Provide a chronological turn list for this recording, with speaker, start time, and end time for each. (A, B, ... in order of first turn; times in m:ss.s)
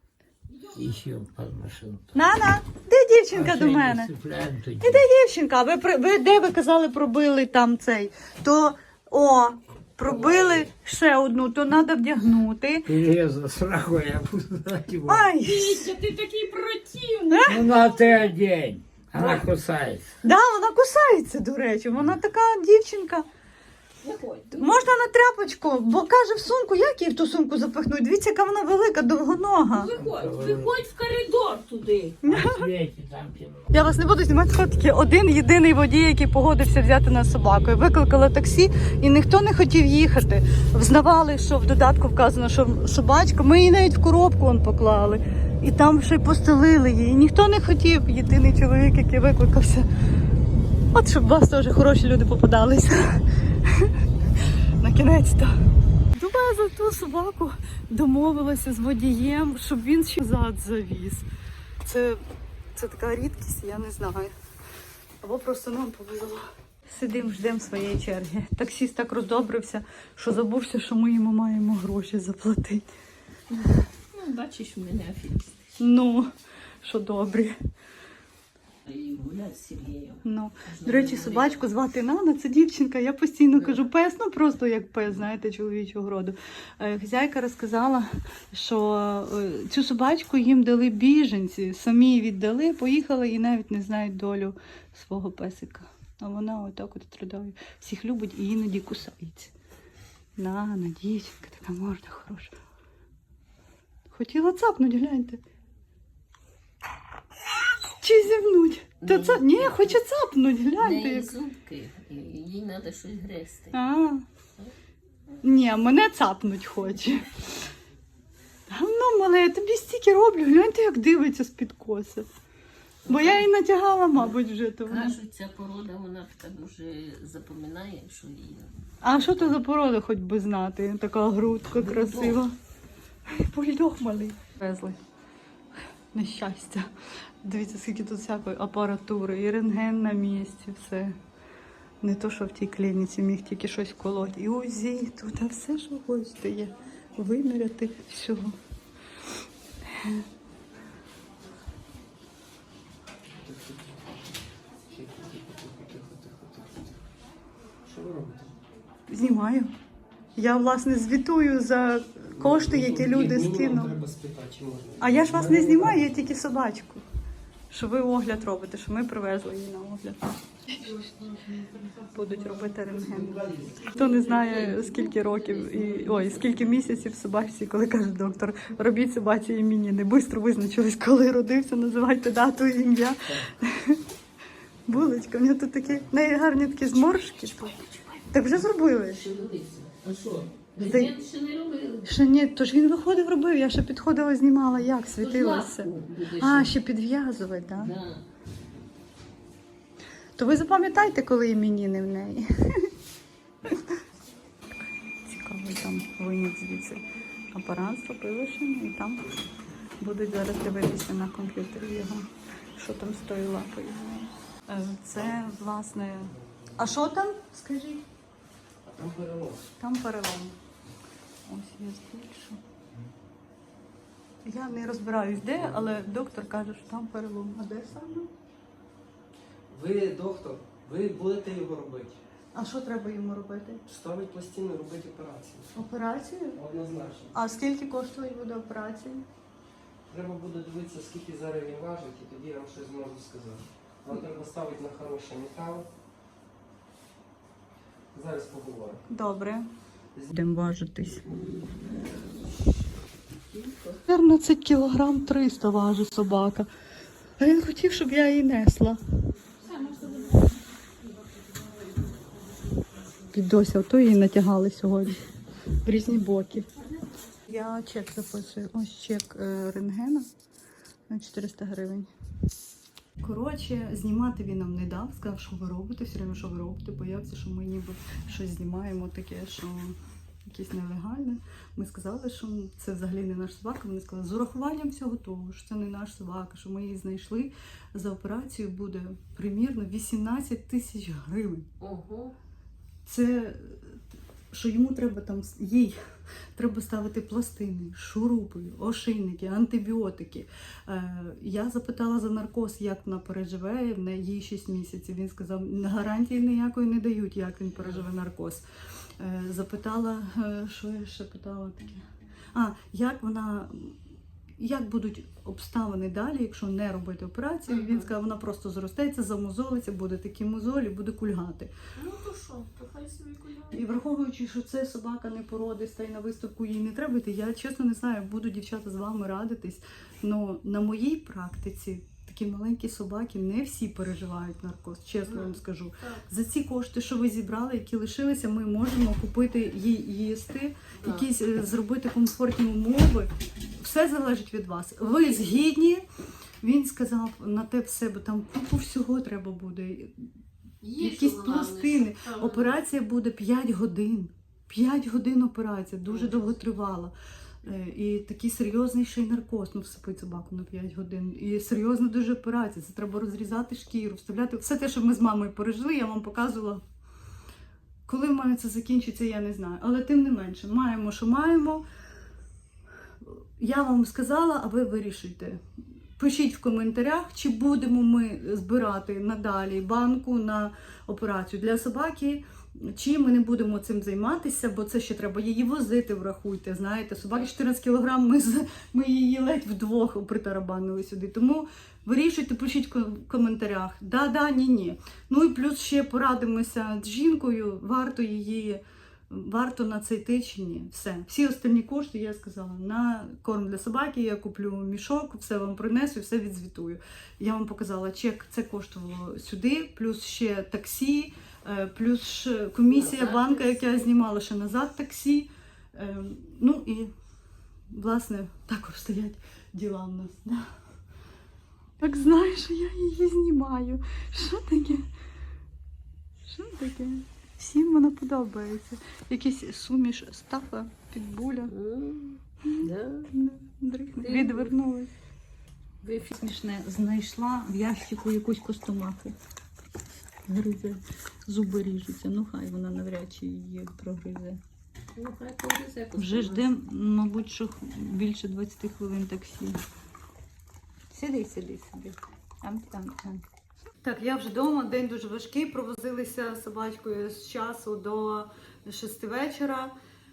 0:00.5-0:00.9 A
0:00.7-0:02.1 B
0:02.1-0:04.1 C
0:03.3-0:05.0 B
0:04.8-0:12.9 C
0:10.1-0:10.7 B
0:12.8-0:15.3 B
0:15.1-0:15.9 C
0:15.4-0:17.7 A
0:17.3-0:17.6 C
0:17.5-0:20.1 B
0:19.2-0:19.4 C
0:20.2-0:23.3 C
0:24.0-0:24.8 A
0:24.6-0:29.9 C
0:29.7-0:32.2 A
0:29.9-0:30.8 B
0:32.2-0:32.7 C
0:32.2-0:33.7 B
0:33.7-0:49.9 C
0:50.9-0:53.9 C
0:54.8-0:55.5 C
0:56.1-1:01.2 C
1:01.8-1:02.2 C
1:02.7-1:04.3 C
1:05.2-1:12.9 C
1:13.6-1:15.6 A
1:15.8-1:16.3 C
1:16.8-1:17.6 C
1:18.8-1:21.6 A
1:20.2-1:39.5 C
1:40.4-1:42.5 C
1:44.1-1:45.4 C
1:48.0-1:51.3 C
1:49.0-1:50.0 A
1:50.8-1:53.7 A
1:53.7-1:54.2 C
1:55.4-1:57.3 C
1:58.7-2:02.3 C
2:03.0-2:03.5 A
2:03.1-2:05.2 C
2:04.8-2:08.7 A
2:09.0-2:12.5 C
2:11.8-2:12.4 A
2:13.3-2:15.0 C
2:16.1-2:16.9 C
2:17.4-2:21.2 C
2:22.0-2:28.6 C
2:33.4-2:34.2 D
2:34.9-2:37.0 D
2:37.8-2:38.5 D
2:39.1-2:39.7 C
2:40.4-2:43.9 C
2:42.4-2:46.1 D
2:45.0-2:47.0 C
2:47.7-2:51.0 C
2:50.9-2:54.1 D
2:52.1-2:53.4 C
2:53.9-3:04.0 C
2:54.0-2:56.8 A
3:04.9-3:07.7 C
3:06.8-3:08.4 A
3:08.3-3:09.2 C
3:09.0-3:12.1 A
3:10.8-3:11.1 C
3:12.0-3:17.9 C
3:15.2-3:16.7 A
3:17.8-3:18.2 A
3:20.4-3:22.9 C
3:25.2-3:29.2 C
3:30.0-3:38.0 C
3:35.1-3:35.6 D
3:36.2-3:36.8 D
3:38.8-3:39.7 D
3:39.8-3:40.6 C
3:41.5-3:42.6 C
3:44.4-3:48.3 C
3:45.6-3:45.8 D
3:49.7-3:52.2 D
3:52.5-3:53.8 C
3:53.9-3:55.7 D
3:55.7-3:56.6 C
3:56.5-3:57.3 D
3:57.3-3:59.2 C
4:00.1-4:05.9 D
4:08.1-4:09.0 D
4:09.1-4:09.7 C
4:10.3-4:11.2 C
4:13.5-4:14.0 A
4:14.1-4:16.7 C
4:17.4-4:19.0 C
4:19.6-4:20.5 A
4:23.3-4:25.2 C
4:25.8-4:26.7 C
4:27.5-4:30.3 C
4:31.1-4:32.1 C
4:33.2-4:51.7 C
4:51.8-4:52.3 A
4:53.0-4:54.0 C
4:54.5-4:56.0 C
4:56.6-5:08.6 C
5:09.2-5:14.0 C
5:14.6-5:21.7 C
5:17.7-5:18.1 A
5:22.0-5:23.9 A
5:23.7-5:46.0 C
5:35.3-5:36.2 A
5:41.0-5:41.3 A
5:46.6-5:50.3 C
5:50.8-5:52.8 A
5:51.0-6:06.8 C
5:56.1-5:56.5 A
6:08.1-6:11.8 C
6:13.2-6:15.6 C
6:16.2-6:57.1 C
6:52.9-6:54.1 A
6:57.9-7:00.7 C
7:02.0-7:05.0 C
7:06.5-7:11.7 C
7:11.7-7:13.3 A
7:12.6-7:15.1 C
7:14.2-7:14.7 A
7:16.2-7:19.4 C
7:20.5-7:24.6 C
7:25.2-7:26.7 A
7:26.2-7:29.8 C
7:31.1-7:33.4 C
7:34.0-7:39.9 C